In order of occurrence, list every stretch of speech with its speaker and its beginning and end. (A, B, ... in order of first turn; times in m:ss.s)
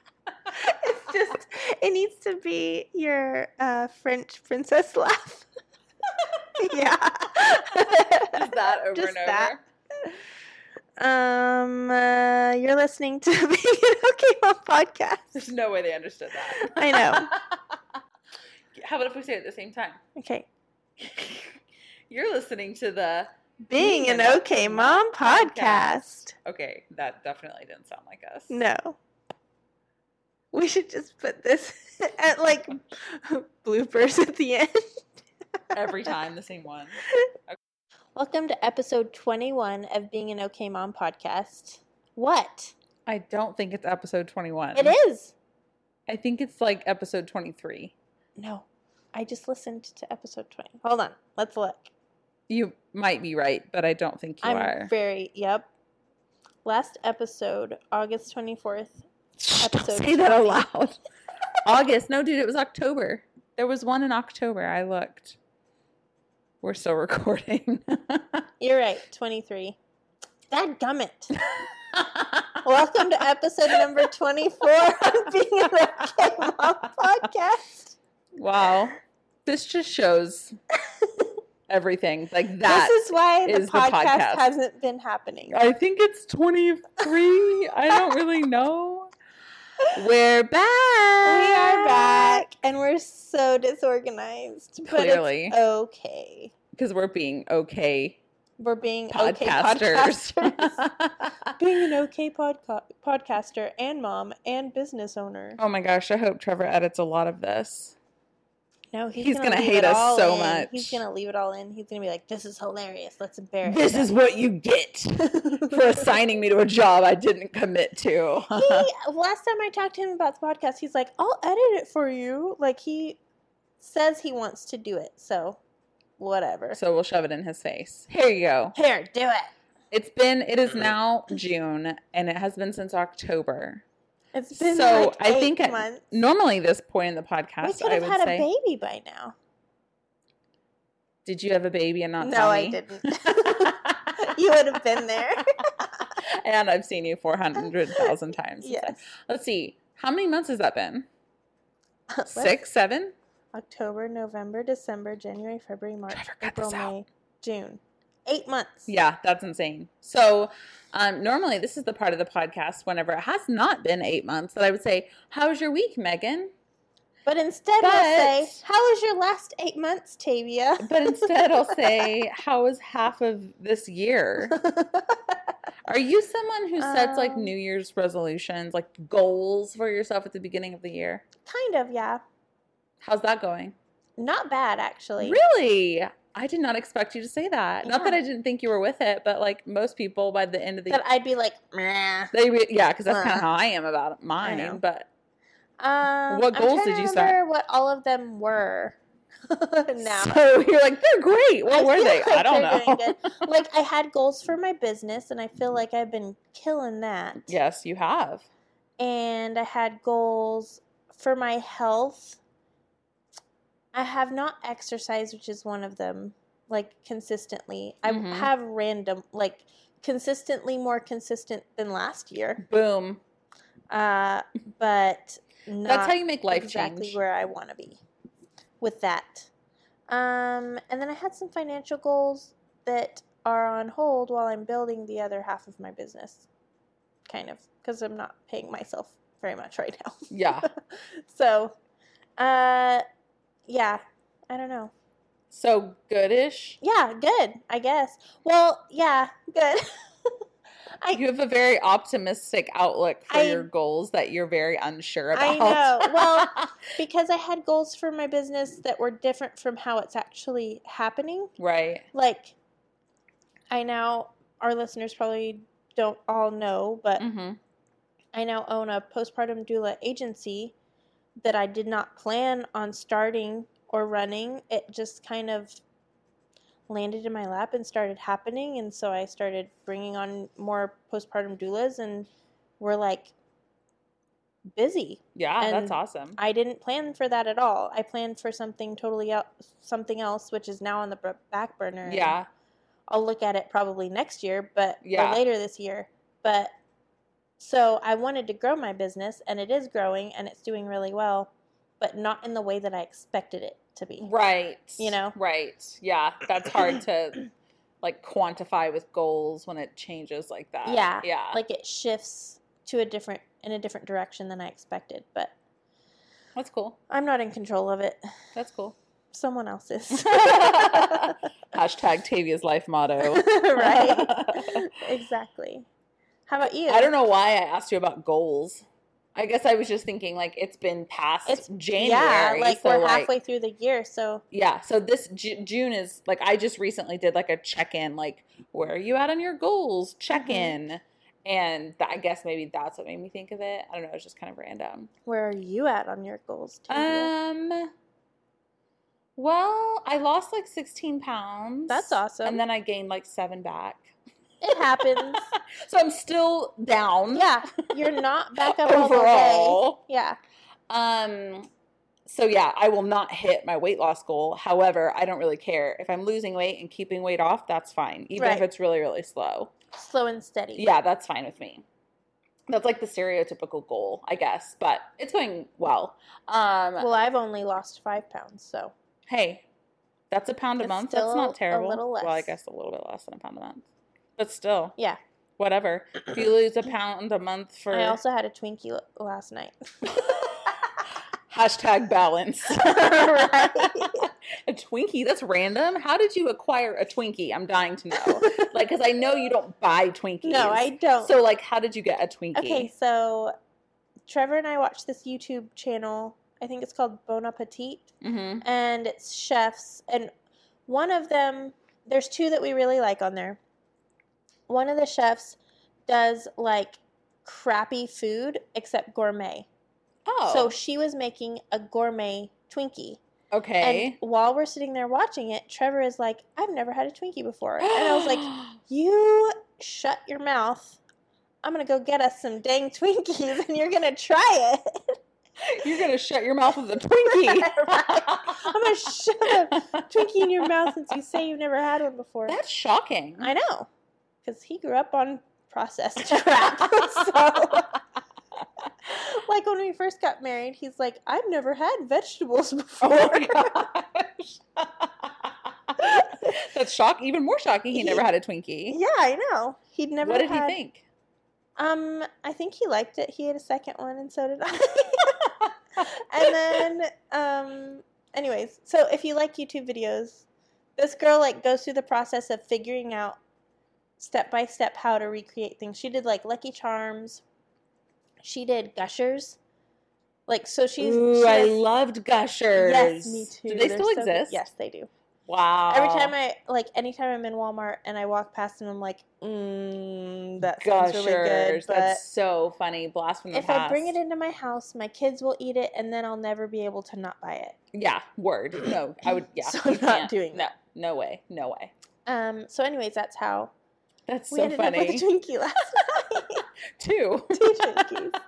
0:00.5-0:05.5 A
0:06.5-0:09.5 A
0:07.8-0:09.6 B
0:11.0-0:15.4 A
0:15.3-0:17.8 B
0:16.6-0:17.3 A
0:18.8-0:20.0 B
0:20.2-0:20.5 A
0:21.0-0:21.5 B
0:22.1-0:28.6 B
0:23.6-0:26.3 A
0:28.5-0:29.0 A
0:30.5-0:35.0 A
0:35.7-0:37.6 B
0:38.2-0:42.7 A
0:43.1-0:45.0 B
0:44.7-0:45.3 A
0:46.1-0:48.0 B
0:48.4-0:51.9 A
0:52.5-0:54.9 B
0:54.4-0:55.7 A
0:56.6-0:59.0 A
0:59.4-1:01.0 B
0:59.6-1:00.3 A
1:01.6-1:05.4 B
1:06.6-1:08.4 B
1:08.6-1:09.8 A
1:10.5-1:11.4 A
1:11.4-1:12.9 B
1:12.6-1:18.0 A
1:13.7-1:14.1 B
1:15.0-1:15.3 B
1:16.0-1:16.8 B
1:18.4-1:20.6 B
1:21.7-1:24.4 B
1:22.6-1:25.6 A
1:25.5-1:29.1 B
1:30.0-1:32.5 B
1:31.2-1:36.5 A
1:34.8-1:35.6 B
1:36.7-1:38.2 B
1:38.6-1:40.8 A
1:39.1-1:41.5 B
1:41.6-1:45.6 A
1:45.6-1:48.0 B
1:48.9-1:54.1 A
1:49.2-1:51.0 B
1:53.6-1:58.9 B
1:55.4-1:56.1 A
1:58.5-2:03.2 A
2:03.8-2:05.6 A
2:06.2-2:06.8 A
2:06.7-2:08.8 B
2:08.8-2:09.5 A
2:09.9-2:13.8 B
2:14.3-2:16.0 A
2:14.5-2:18.5 B
2:17.6-2:19.4 A
2:21.2-2:25.2 B
2:22.2-2:26.1 A
2:26.2-2:31.1 B
2:27.9-2:29.0 A
2:32.1-2:32.6 A
2:32.3-2:33.1 B
2:33.5-2:38.9 A
2:36.1-2:36.9 B
2:38.9-2:46.5 B
2:47.3-2:51.9 A
2:47.8-2:48.6 B
2:50.8-2:54.6 B
2:54.5-2:55.4 A
2:55.9-3:01.2 B
2:56.8-2:57.5 A
3:01.4-3:02.2 A
3:03.0-3:03.8 B
3:04.2-3:05.4 A
3:05.2-3:11.0 B
3:07.8-3:08.2 A
3:10.9-3:12.3 A
3:12.3-3:15.1 B
3:13.1-3:13.4 A
3:14.4-3:14.8 A
3:15.8-3:19.0 A
3:16.3-3:17.4 B
3:19.5-3:20.4 A
3:20.0-3:23.5 B
3:21.7-3:27.6 A
3:27.5-3:28.5 B
3:29.0-3:32.4 A
3:33.9-3:42.6 A
3:38.1-3:38.5 B
3:42.6-3:43.2 B
3:43.9-3:48.0 A
3:45.8-3:47.2 B
3:48.8-3:49.5 A
3:50.1-3:56.5 A
3:57.3-4:01.7 A
4:00.3-4:00.7 B
4:02.4-4:03.0 A
4:03.7-4:04.9 A
4:05.5-4:06.8 B
4:06.8-4:10.3 A
4:11.1-4:16.7 B
4:13.3-4:13.7 A
4:15.3-4:21.5 A
4:21.6-4:22.1 B
4:22.1-4:22.6 A
4:23.7-4:27.2 A
4:27.2-4:27.6 B
4:28.3-4:30.7 A
4:31.4-4:35.8 A
4:36.9-4:42.3 A
4:42.8-4:43.3 A
4:44.7-4:52.4 A
4:45.4-4:46.4 B
4:52.1-4:52.5 B
4:53.1-4:56.7 A
4:55.0-4:55.4 B
4:57.6-5:04.3 A
5:04.2-5:07.5 B
5:05.0-5:05.4 A
5:08.0-5:11.6 B
5:10.8-5:15.5 A
5:16.6-5:17.0 B
5:17.1-5:18.2 A
5:18.6-5:19.0 B
5:19.3-5:21.4 A
5:20.1-5:24.8 B
5:23.2-5:25.9 A
5:26.5-5:27.1 A
5:26.9-5:33.3 B
5:31.5-5:34.4 A
5:34.5-5:45.1 B
5:40.3-5:40.8 A
5:45.3-5:47.3 A
5:46.9-5:47.9 B
5:49.4-5:54.1 B
5:51.9-5:52.6 A
5:54.6-5:55.5 A
5:55.0-5:57.6 B
5:57.3-6:00.4 A
5:58.6-6:00.0 B
6:00.9-6:01.7 B
6:02.3-6:09.7 B
6:08.4-6:08.6 A
6:09.9-6:10.9 A
6:10.8-6:11.8 B
6:12.7-6:17.1 B
6:17.0-6:18.9 A
6:19.3-6:19.6 B
6:20.3-6:23.9 B
6:20.8-6:22.6 A
6:24.4-6:25.0 B
6:25.6-6:28.2 B
6:27.9-6:30.8 A
6:30.0-6:30.7 B
6:31.5-6:42.9 B
6:32.8-6:34.3 A
6:38.2-6:38.7 A
6:40.4-6:41.3 A
6:42.6-6:43.5 A
6:44.3-6:50.3 A
6:48.2-6:48.6 B
6:50.9-6:53.6 A
6:54.7-6:59.7 A
7:00.3-7:00.7 B
7:00.5-7:03.2 A
7:03.5-7:04.2 B
7:03.8-7:11.0 A
7:07.8-7:08.8 B
7:11.6-7:15.2 A
7:15.6-7:18.9 B
7:17.2-7:22.6 A
7:19.4-7:20.7 B
7:22.5-7:23.5 B
7:23.4-7:23.9 A
7:24.4-7:28.0 A
7:26.3-7:27.8 B
7:29.0-7:33.9 A
7:33.0-7:39.0 B
7:36.0-7:36.5 A
7:37.9-7:38.3 A
7:38.9-7:40.8 A
7:40.2-7:41.0 B
7:41.8-7:45.5 A
7:45.4-7:45.7 B
7:46.0-7:50.4 A
7:46.4-7:46.8 B
7:51.0-7:53.4 A
7:54.2-7:57.4 A
7:58.4-7:59.6 A
8:00.5-8:01.8 A
8:01.0-8:04.6 B
8:02.8-8:05.1 A
8:05.5-8:06.3 B
8:05.9-8:12.2 A
8:10.8-8:14.2 B
8:13.5-8:17.8 A
8:17.9-8:21.9 B
8:19.6-8:20.7 A
8:22.3-8:23.7 A
8:24.3-8:25.3 B
8:24.5-8:26.6 A
8:27.0-8:28.2 B
8:27.5-8:28.4 A